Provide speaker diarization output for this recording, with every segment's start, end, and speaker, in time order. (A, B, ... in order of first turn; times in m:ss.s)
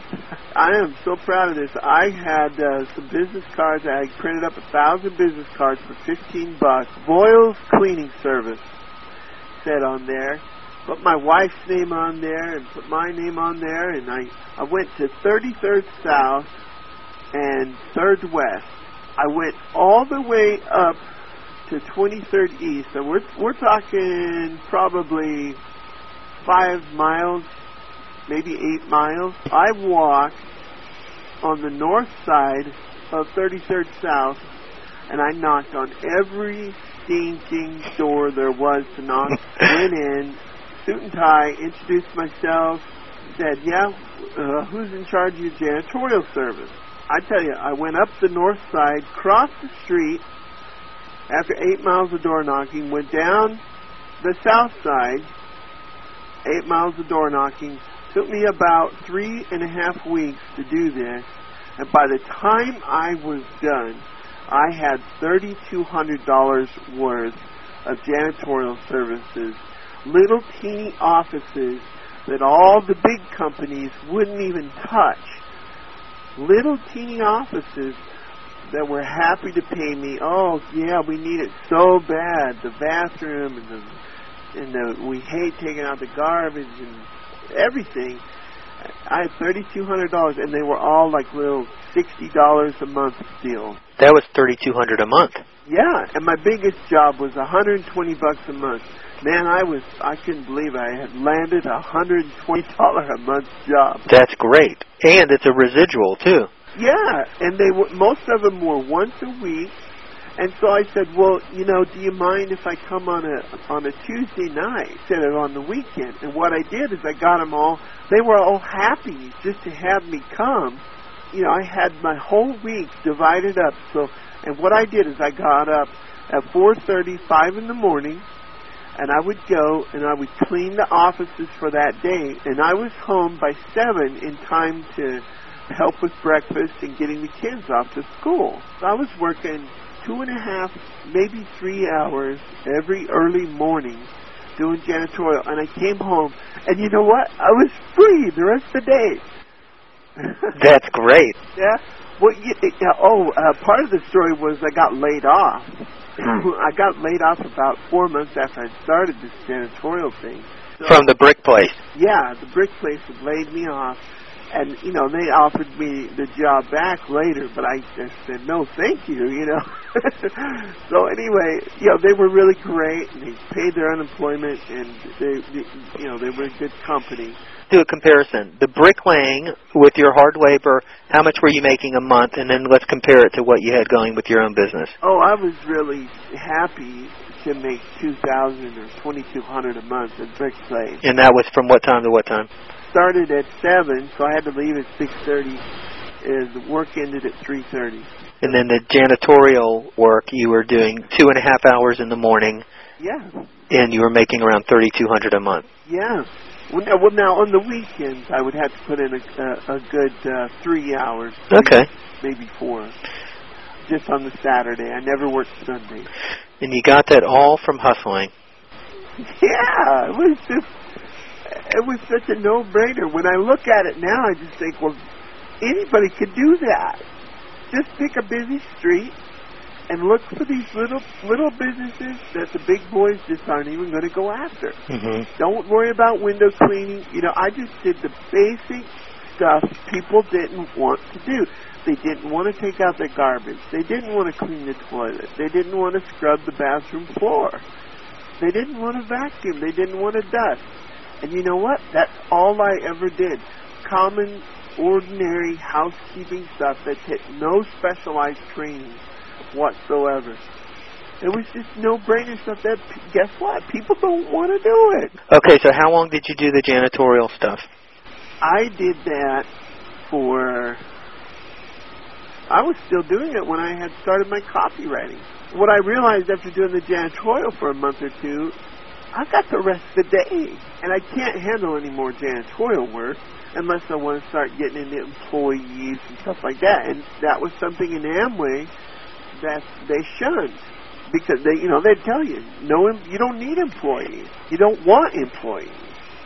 0:00.5-0:08.7 A
0:09.6-0:16.5 A
0:17.3-0:21.0 A
0:21.7-0:25.6 A
0:26.4-0:27.5 A
0:28.3-0:30.4 A
0:31.4-0:34.5 A
0:35.1-0:50.2 A
0:51.3-0:53.6 A
0:54.2-0:55.3 A
0:56.4-1:01.3 A
1:01.8-1:15.4 A
1:16.4-1:18.0 A
1:18.7-1:24.0 A
1:24.5-1:28.2 A
1:29.0-1:33.8 A
1:34.0-1:35.4 B
1:35.6-1:44.0 A
1:44.1-1:46.5 B
1:46.7-1:49.8 A
1:50.4-2:08.2 A
2:09.0-2:29.2 A
2:30.2-2:30.6 A
2:30.5-2:31.4 B
2:31.6-2:41.1 A
2:40.8-2:41.8 B
2:41.9-2:57.4 A
2:57.7-3:05.0 B
3:05.0-3:11.0 A
3:11.0-3:12.5 B
3:12.9-3:15.6 A
3:16.2-3:18.6 A
3:18.4-3:22.6 B
3:23.0-3:23.3 A
3:23.7-3:25.6 B
3:25.8-3:32.9 A
3:31.5-3:31.9 B
3:33.9-3:36.1 A
3:36.6-3:38.3 B
3:39.2-3:40.7 A
3:41.5-3:45.0 A
3:45.6-3:47.0 A
3:47.7-3:49.2 A
3:49.9-3:54.8 A
3:54.9-3:55.3 B
3:55.4-4:07.6 A
4:08.4-4:10.7 A
4:11.2-4:20.4 A
4:21.2-4:25.1 A
4:25.3-4:27.7 B
4:28.4-4:29.5 A
4:30.0-4:30.8 A
4:32.5-4:38.5 A
4:39.1-4:48.7 A
4:49.3-4:56.0 A